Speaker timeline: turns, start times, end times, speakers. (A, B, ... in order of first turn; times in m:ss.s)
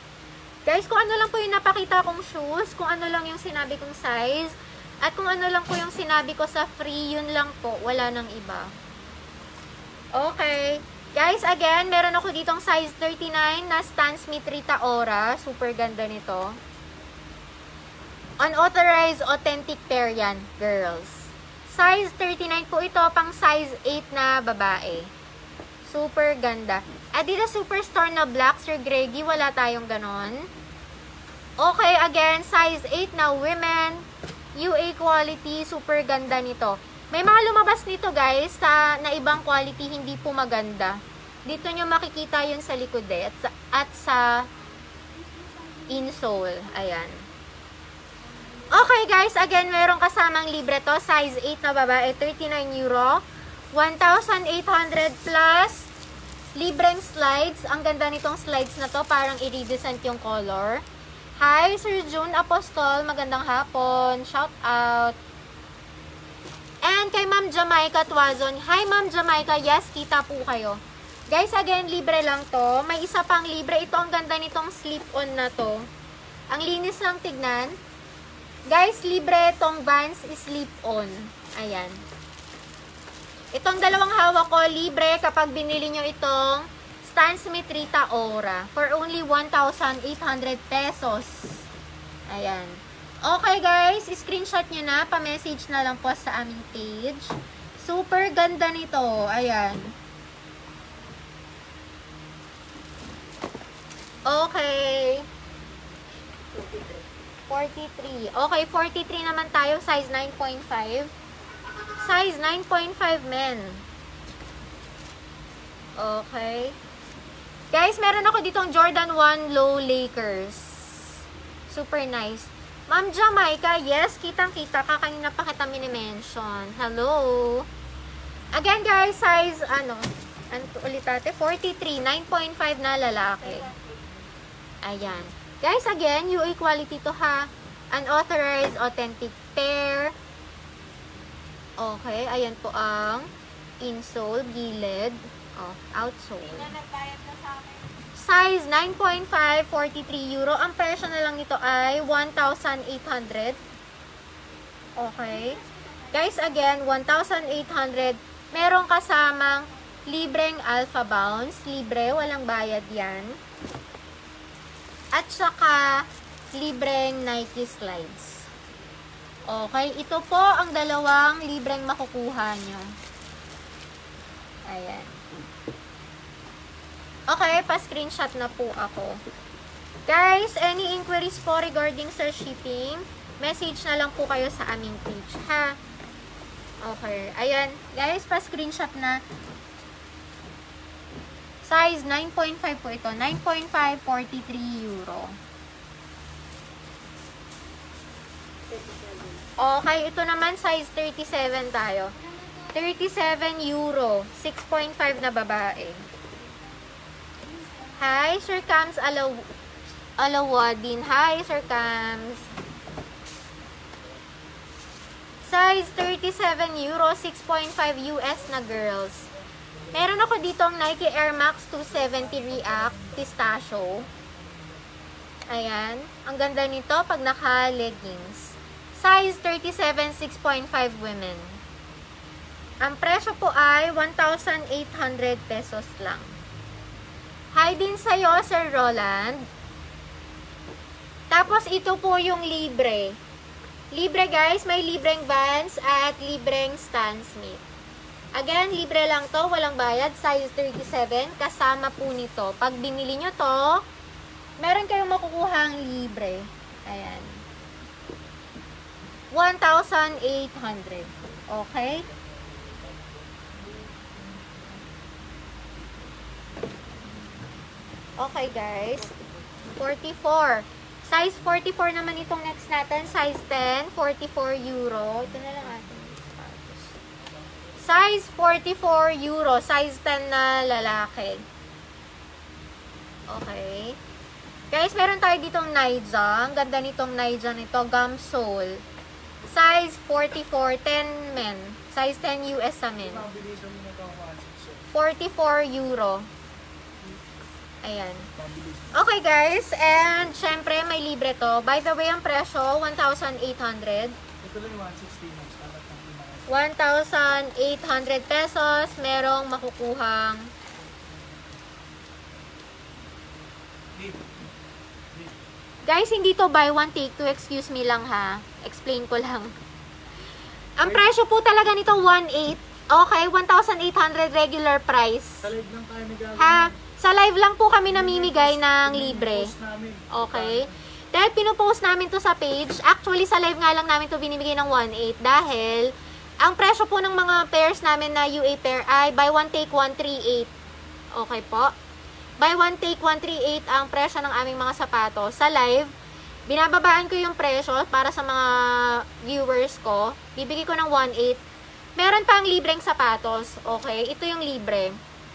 0:00.7-0:08.7 A
0:10.1-0:16.6 A
0:18.4-0:25.1 A
0:25.9-0:30.5 A
0:31.6-0:34.0 A
0:34.6-0:44.5 A
0:45.9-0:47.2 A
0:48.7-0:55.9 A
0:56.6-1:00.8 A
1:01.4-1:05.2 A
1:06.8-1:10.8 A
1:11.3-1:15.9 A
1:16.5-1:17.8 A
1:18.7-1:22.0 A
1:23.5-1:31.6 A
1:32.3-1:39.9 A
1:44.3-1:45.3 A
1:46.5-1:47.0 B
1:47.5-1:51.1 A
1:52.0-1:53.8 A
1:56.0-1:56.8 A
1:57.7-2:01.1 A
2:01.7-2:07.7 A
2:08.6-2:13.7 A
2:13.4-2:14.0 B
2:14.8-2:20.1 A
2:21.8-2:23.3 A
2:23.8-2:26.8 A
2:26.8-2:27.7 B
2:28.2-2:33.6 A
2:35.0-2:35.6 A
2:36.1-2:43.4 A
2:45.1-2:48.5 A
2:49.5-2:52.9 A
2:54.7-2:55.2 A
2:57.3-2:59.2 A
3:00.1-3:05.8 A
3:06.8-3:09.2 A
3:11.6-3:15.4 A
3:18.7-3:19.4 B
3:19.6-3:22.1 A
3:22.7-3:26.0 A
3:28.0-3:29.5 A
3:30.2-3:32.5 A
3:35.5-3:39.3 A
3:39.7-3:40.2 C
3:39.9-3:44.1 A
3:42.0-3:43.3 C
3:44.0-3:44.8 C
3:45.5-3:51.6 A
3:52.8-3:56.3 A
3:57.5-3:59.4 A
4:01.3-4:03.2 A
4:03.9-4:07.6 A
4:08.4-4:13.8 A
4:14.6-4:17.4 A
4:19.3-4:22.0 A
4:22.0-4:24.7 C
4:28.2-4:29.1 A
4:29.8-4:36.9 A
4:35.6-4:36.3 C
4:37.3-4:37.7 C
4:37.8-4:41.4 A
4:43.3-4:44.0 A
4:44.7-4:48.8 A
4:49.5-4:53.3 A
4:53.0-4:54.9 C
4:54.9-4:56.3 A
4:57.8-4:58.3 A
4:58.4-4:58.9 C
4:58.9-5:04.2 A
5:04.4-5:06.5 C
5:06.5-5:10.5 A
5:14.0-5:14.4 C
5:15.9-5:19.5 A
5:20.8-5:25.5 A
5:20.8-5:21.1 C
5:25.4-5:26.8 C
5:26.4-5:29.5 A
5:27.8-5:30.8 C
5:30.1-5:35.9 A
5:36.4-5:40.5 A
5:41.1-5:41.7 A
5:42.4-5:45.9 A
5:46.5-5:51.4 A
5:52.0-5:55.0 A